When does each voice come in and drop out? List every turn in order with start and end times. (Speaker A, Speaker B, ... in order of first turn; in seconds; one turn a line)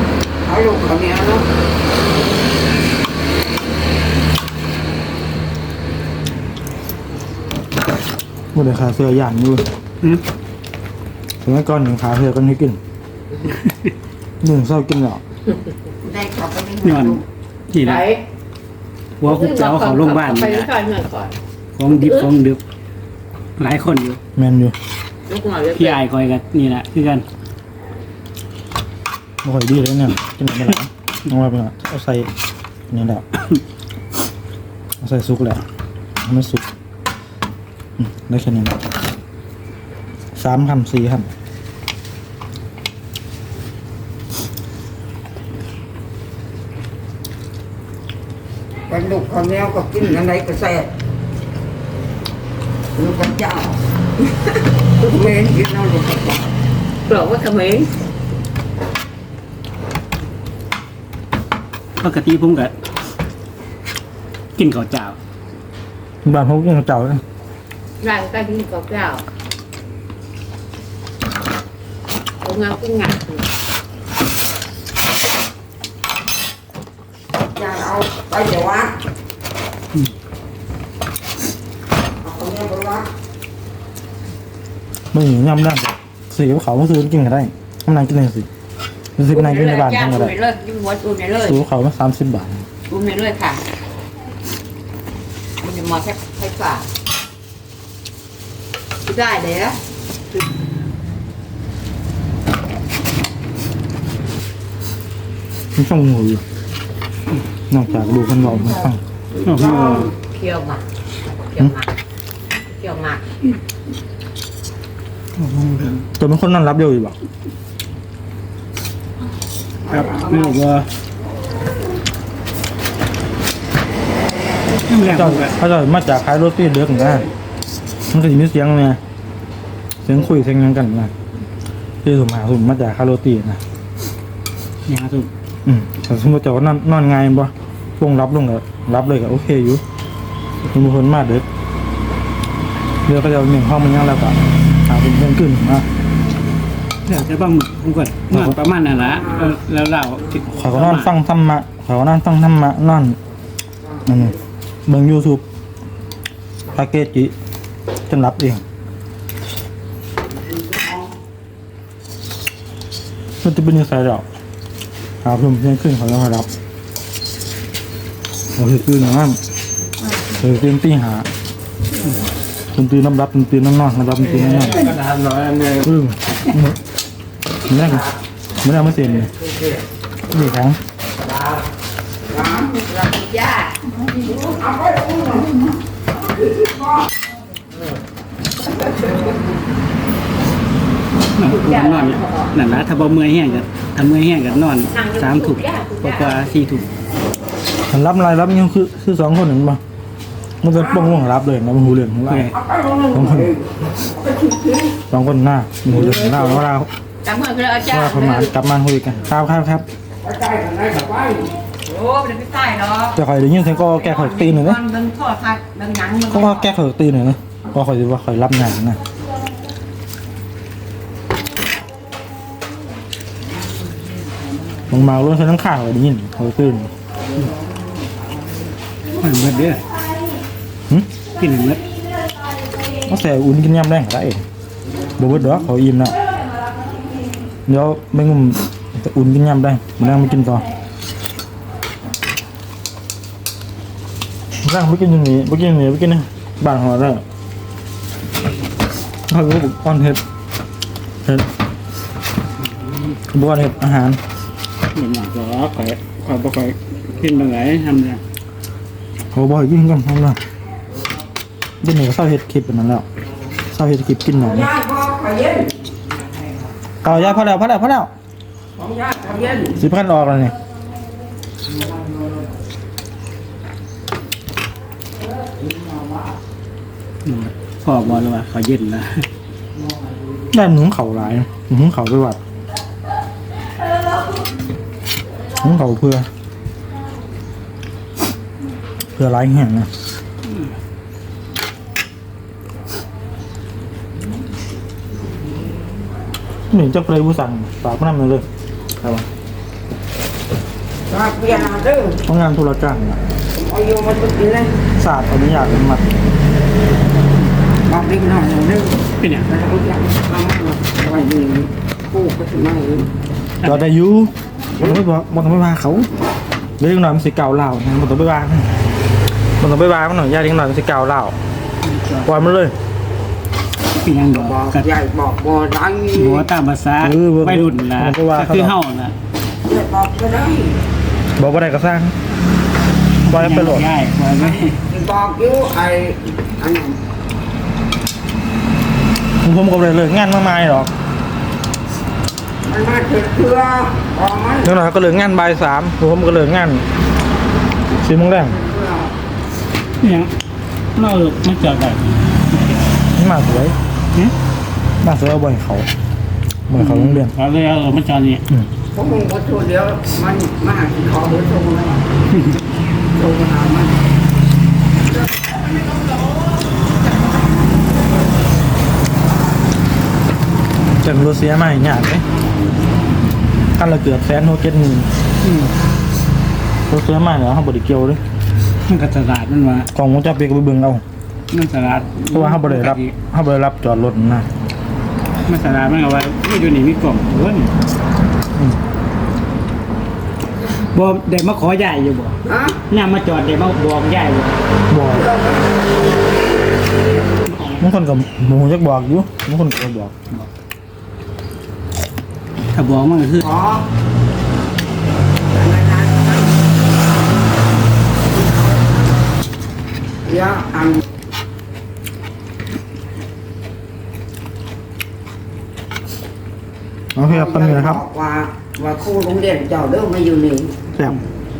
Speaker A: 0.5-1.5
Speaker B: 8.5-9.7
Speaker B: 11.4-12.8
Speaker B: 14.4-15.2
Speaker A: 16.0-17.2
Speaker C: 16.8-17.2
Speaker C: 17.7-18.0
Speaker D: 17.8-18.2
Speaker C: 19.2-20.7
Speaker D: 19.2-21.4
Speaker C: 21.8-22.6
Speaker D: 21.9-22.3
Speaker C: 23.6-24.2
Speaker B: 24.4-24.7
Speaker D: 25.3-26.0
Speaker C: 25.7-27.2
Speaker B: 29.4-32.3
Speaker B: 32.9-33.2
Speaker B: 35.0-35.6
Speaker B: 36.2-36.6
Speaker B: 38.0-38.8
Speaker B: 40.3-41.3
Speaker A: 48.9-50.9
Speaker A: 53.0-53.8
Speaker A: 54.4-56.5
Speaker D: 57.0-57.9
Speaker C: 62.0-62.7
Speaker C: 64.5-65.2
Speaker B: 66.2-67.2
Speaker D: 68.0-69.2
Speaker D: 72.4-73.5
Speaker A: 77.5-78.9
Speaker A: 82.2-83.1
Speaker B: 85.1-88.5
Speaker B: 89.2-90.3
Speaker D: 89.3-91.6
Speaker B: 91.4-92.7
Speaker D: 92.9-93.6
Speaker D: 95.6-96.8
Speaker D: 99.0-99.8
Speaker B: 105.8-106.4
Speaker B: 107.7-109.0
Speaker A: 109.3-110.1
Speaker C: 109.4-110.1
Speaker D: 110.2-111.9
Speaker D: 112.7-113.2
Speaker C: 115.4-116.0
Speaker B: 116.1-117.2
Speaker A: 119.8-120.6
Speaker C: 119.9-120.9
Speaker C: 124.9-125.5
Speaker B: 125.0-127.2
Speaker B: 128.1-129.0
Speaker B: 130.0-131.1
Speaker B: 132.0-133.6
Speaker C: 134.8-135.3
Speaker B: 135.6-139.8
Speaker B: 140.7-141.4
Speaker B: 143.1-145.9
Speaker C: 147.0-151.1
Speaker B: 148.3-148.6
Speaker A: 149.0-149.5
Speaker B: 150.5-153.2
Speaker A: 153.8-154.3
Speaker B: 154.1-154.3
Speaker B: 154.9-155.4
Speaker B: 156.7-157.3
Speaker B: 158.1-158.6
Speaker A: 160.3-161.1
Speaker B: 163.4-164.2
Speaker B: 165.2-166.5
Speaker B: 168.6-169.4
Speaker B: 170.3-171.3
Speaker B: 172.7-174.9
Speaker B: 175.7-176.8
Speaker B: 177.7-178.1
Speaker B: 178.6-179.3
Speaker B: 180.3-180.8
Speaker A: 182.3-182.9
Speaker D: 182.9-183.9
Speaker A: 184.3-185.8
Speaker A: 186.5-187.0
Speaker A: 188.9-189.3
Speaker C: 191.3-196.8
Speaker D: 191.5-192.5
Speaker D: 194.9-196.6
Speaker B: 197.9-199.8
Speaker B: 200.6-202.5
Speaker A: 200.7-201.2
Speaker C: 202.3-202.5
Speaker A: 202.5-205.0
Speaker B: 203.1-203.5
Speaker B: 205.1-206.9
Speaker A: 205.9-206.7
Speaker D: 207.2-208.5
Speaker B: 207.8-209.8
Speaker A: 210.2-211.6
Speaker D: 211.8-213.2
Speaker B: 213.1-214.8
Speaker D: 213.7-216.7
Speaker B: 216.3-219.0
Speaker B: 224.9-226.9
Speaker C: 229.2-229.8
Speaker C: 231.3-231.8
Speaker B: 233.0-234.4
Speaker B: 235.2-236.2
Speaker B: 237.7-240.7
Speaker B: 244.6-247.2
Speaker B: 249.3-250.2
Speaker B: 253.3-254.2
Speaker C: 254.9-258.2
Speaker B: 259.3-260.4
Speaker B: 261.8-263.0
Speaker B: 263.7-264.7
Speaker A: 264.3-265.8
Speaker B: 267.0-268.1
Speaker A: 268.8-269.8
Speaker B: 269.8-270.5
Speaker C: 277.2-279.3
Speaker B: 280.5-282.4
Speaker B: 285.6-286.3
Speaker B: 289.1-289.9
Speaker B: 296.7-298.4
Speaker B: 299.0-299.3
Speaker A: 301.1-302.2
Speaker B: 302.2-303.2
Speaker A: 303.5-304.8
Speaker B: 304.9-306.1
Speaker A: 307.8-313.1
Speaker C: 309.2-309.5
Speaker B: 313.6-316.1
Speaker B: 316.8-318.7
Speaker B: 319.6-321.3
Speaker C: 321.8-322.3
Speaker B: 322.2-322.8
Speaker C: 324.0-324.9
Speaker A: 324.3-326.5
Speaker C: 326.1-329.1
Speaker B: 327.0-328.7
Speaker A: 329.6-330.8
Speaker B: 331.4-332.1
Speaker C: 333.2-334.8
Speaker B: 333.3-333.9
Speaker A: 334.4-337.0
Speaker B: 339.4-340.9
Speaker A: 342.6-344.8
Speaker B: 344.6-346.8
Speaker B: 348.0-348.6
Speaker A: 348.3-349.1
Speaker C: 350.0-350.3
Speaker C: 350.9-352.9
Speaker B: 353.1-353.8
Speaker B: 355.0-355.9
Speaker B: 356.7-357.4
Speaker C: 356.8-358.4
Speaker A: 358.9-362.0
Speaker A: 363.1-364.0
Speaker B: 371.0-372.2
Speaker B: 373.8-375.1
Speaker C: 375.4-375.7
Speaker B: 376.9-378.2
Speaker C: 378.9-379.9
Speaker B: 379.9-381.0
Speaker C: 381.5-383.1
Speaker B: 382.3-384.5
Speaker C: 385.4-387.7
Speaker C: 390.9-394.6
Speaker A: 392.4-392.8
Speaker B: 394.9-395.3
Speaker A: 395.1-395.8
Speaker B: 397.8-400.1
Speaker C: 402.7-403.5
Speaker A: 403.4-403.8
Speaker A: 405.5-406.7
Speaker A: 408.3-409.0
Speaker A: 410.2-411.0
Speaker B: 417.1-418.0
Speaker A: 417.3-420.8